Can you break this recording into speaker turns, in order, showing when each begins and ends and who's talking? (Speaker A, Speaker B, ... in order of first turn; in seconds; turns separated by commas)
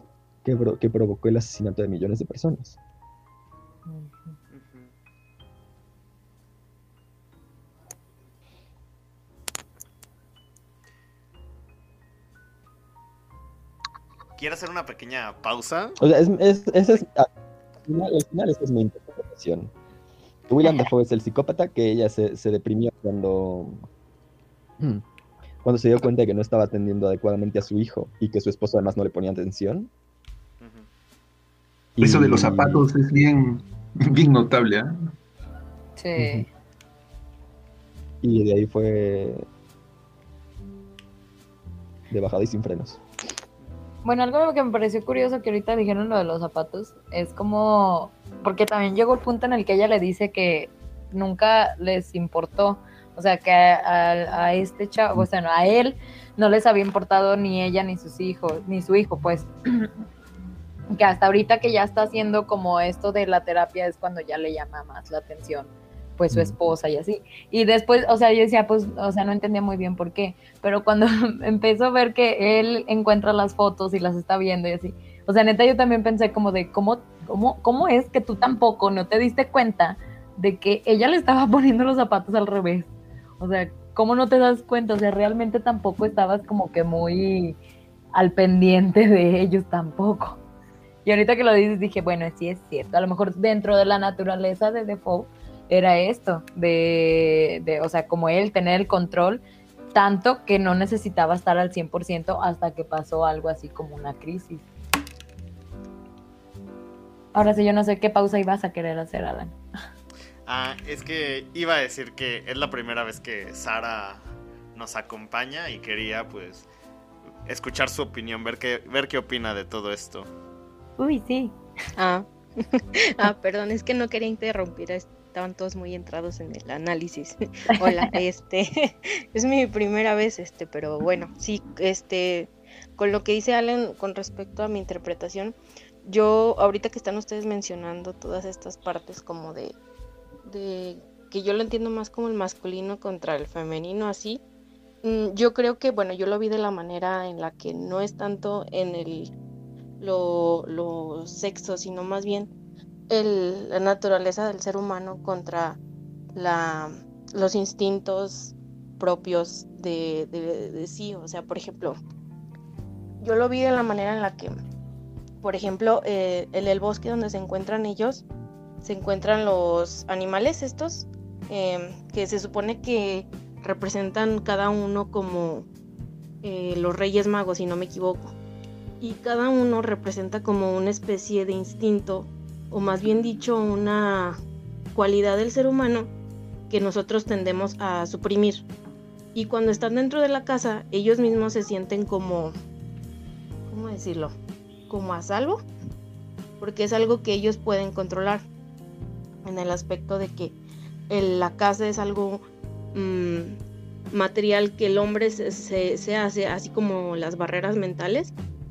Speaker A: 0.4-2.8, Speaker B: 3.9-4.4, Speaker C: 4.5-4.9, Speaker C: 14.4-16.0, Speaker A: 16.0-17.3, Speaker A: 17.9-19.7, Speaker A: 20.5-23.9, Speaker A: 24.8-25.0, Speaker A: 25.6-29.9, Speaker C: 30.6-30.9, Speaker A: 32.0-32.9, Speaker D: 32.0-34.9, Speaker B: 36.0-36.5, Speaker A: 36.2-36.5, Speaker A: 38.2-39.5, Speaker A: 42.1-43.0, Speaker B: 44.0-59.9, Speaker B: 60.9-82.9, Speaker B: 83.4-87.6, Speaker B: 88.1-90.4, Speaker B: 91.0-99.4, Speaker B: 99.9-104.7, Speaker B: 107.3-109.5, Speaker C: 110.5-116.7, Speaker C: 117.5-120.3, Speaker B: 121.0-121.6, Speaker E: 122.0-122.3, Speaker E: 123.2-139.8, Speaker B: 127.8-128.1, Speaker E: 140.4-144.4, Speaker E: 145.0-149.3, Speaker E: 150.0-152.5, Speaker E: 153.1-155.8, Speaker E: 156.3-162.0, Speaker E: 163.2-164.6, Speaker E: 165.4-168.2, Speaker E: 168.8-175.7, Speaker E: 176.4-178.3, Speaker E: 179.0-184.4, Speaker E: 184.9-186.1, Speaker E: 186.7-188.7, Speaker E: 189.3-192.5, Speaker E: 193.7-194.3, Speaker E: 194.9-195.6, Speaker E: 196.6-198.4, Speaker E: 199.4-200.6, Speaker E: 201.1-203.6, Speaker E: 204.1-208.3